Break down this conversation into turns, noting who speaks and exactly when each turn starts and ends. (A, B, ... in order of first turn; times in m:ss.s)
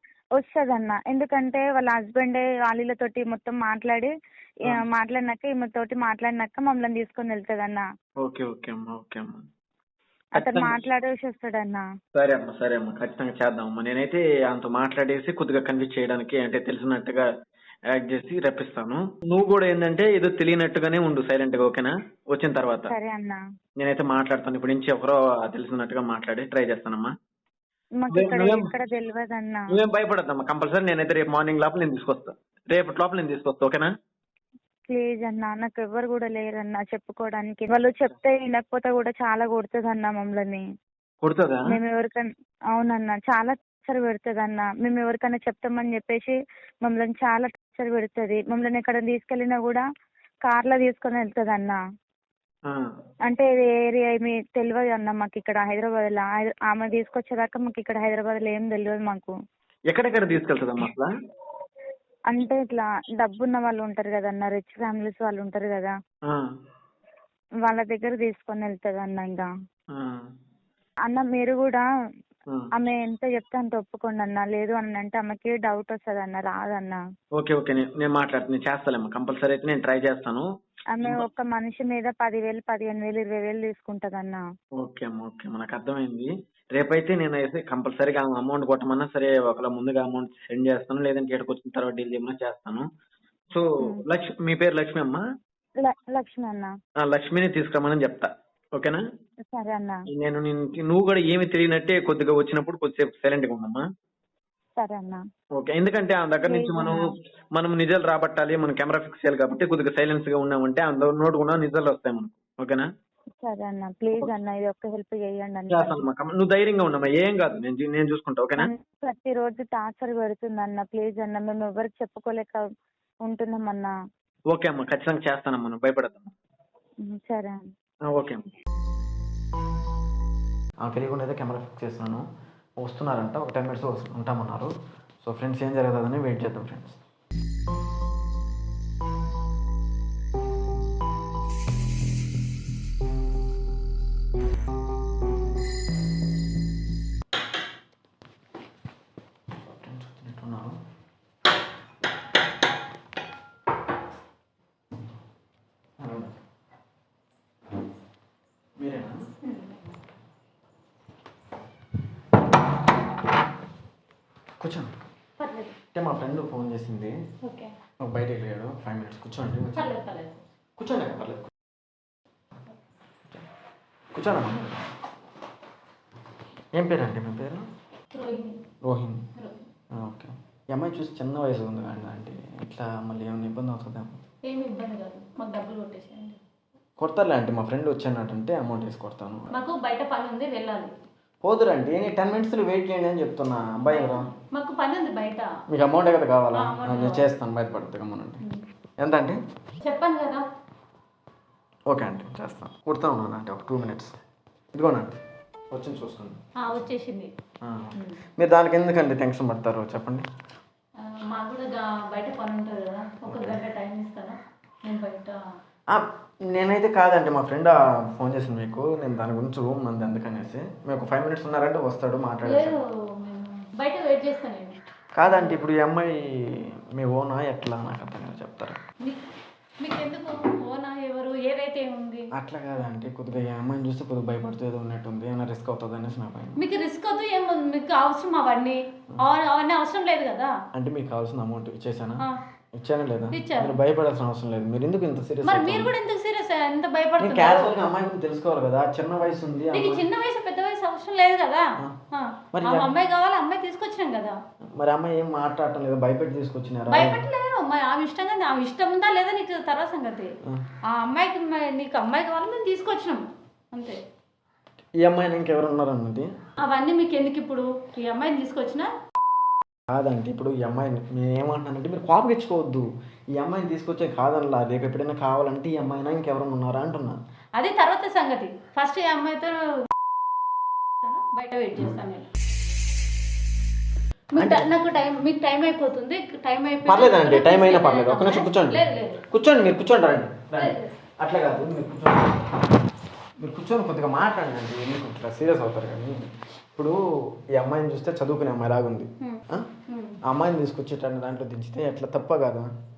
0:00.4-0:04.1 A
0:04.7-0:07.8 A
0:08.2-0:09.4 B
0:10.3-0:10.8 B
0:10.3-0:11.8 A
0:12.1-0:17.3 B
0:17.9-0:22.9 B
0:22.9-0:23.4 A
0:23.8-0:27.1 B
0:28.0-0:29.6 A
0:28.1-0:28.7 B
0:29.7-0:33.9 B
0:34.9-0:40.6 A
0:41.2-0:41.8 B
0:41.7-0:49.8 A
0:50.4-0:51.8 A
0:53.3-0:59.3 A
0:59.9-1:01.1 B
1:02.3-1:05.9 A
1:07.6-1:09.5 A
1:09.9-1:10.2 B
1:11.1-1:11.8 A
1:12.8-1:17.0 A
1:17.4-1:20.5 B
1:21.0-1:24.4 A
1:24.8-1:32.9 B
1:33.5-1:35.2 B
1:35.8-1:36.7 A
1:37.0-1:39.0 B
1:39.5-1:40.0 A
1:40.1-1:43.8 B
1:44.8-1:45.2 A
1:45.6-1:52.9 B
1:46.5-1:47.0 A
1:53.4-1:55.9 A
1:55.7-1:58.7 B
1:58.6-2:02.6 A
2:03.2-2:03.9 A
2:04.5-2:06.3 B
2:07.1-2:07.6 A
2:08.1-2:08.4 B
2:10.8-2:12.2 B
2:12.8-2:14.7 B
2:15.2-2:17.0 B
2:29.6-2:30.8 B
2:36.0-2:36.3 B
2:38.8-2:39.2 B
2:39.4-2:39.8 C
2:44.6-2:44.9 B
2:45.4-2:45.7 C
2:45.9-2:47.2 B
2:47.4-2:47.7 C
2:48.0-2:49.8 B
2:49.7-2:50.4 C
2:50.8-2:51.5 B
2:54.1-2:54.8 B
2:56.8-2:57.6 B
2:58.1-2:58.6 C
2:58.8-2:59.2 B
2:59.9-3:04.2 B
3:04.4-3:06.4 C
3:07.0-3:09.5 B
3:09.5-3:10.9 C
3:11.4-3:14.3 B
3:13.9-3:15.5 C
3:15.7-3:18.4 B
3:16.5-3:17.2 C
3:19.0-3:19.4 B
3:19.8-3:20.4 C
3:21.9-3:24.2 B
3:24.7-3:25.2 B
3:25.7-3:26.4 B
3:26.6-3:27.3 C
3:27.6-3:30.2 B
3:31.0-3:35.4 C
3:33.3-3:33.6 B
3:35.9-3:42.8 B
3:42.4-3:45.6 C
3:45.2-3:48.8 B
3:49.8-3:52.3 C
3:52.3-3:56.6 B
3:56.6-4:00.6 C
4:00.7-4:02.2 B
4:02.7-4:05.9 B
4:03.3-4:03.7 C
4:05.4-4:07.7 C
4:07.2-4:10.0 B
4:09.7-4:14.4 C
4:12.5-4:12.9 B
4:14.8-4:17.2 B
4:16.9-4:20.3 C
4:20.9-4:24.0 C
4:25.0-4:26.3 B
4:26.6-4:28.9 C
4:29.9-4:37.2 B
4:37.6-4:39.8 C
4:41.0-4:42.3 C
4:44.3-4:49.2 C
4:44.4-4:44.7 B
4:46.8-4:48.8 B
4:49.3-4:52.6 B
4:50.6-4:50.9 C
4:53.4-4:57.0 B
4:57.5-4:59.7 B
4:59.2-5:00.2 C
5:00.2-5:02.7 B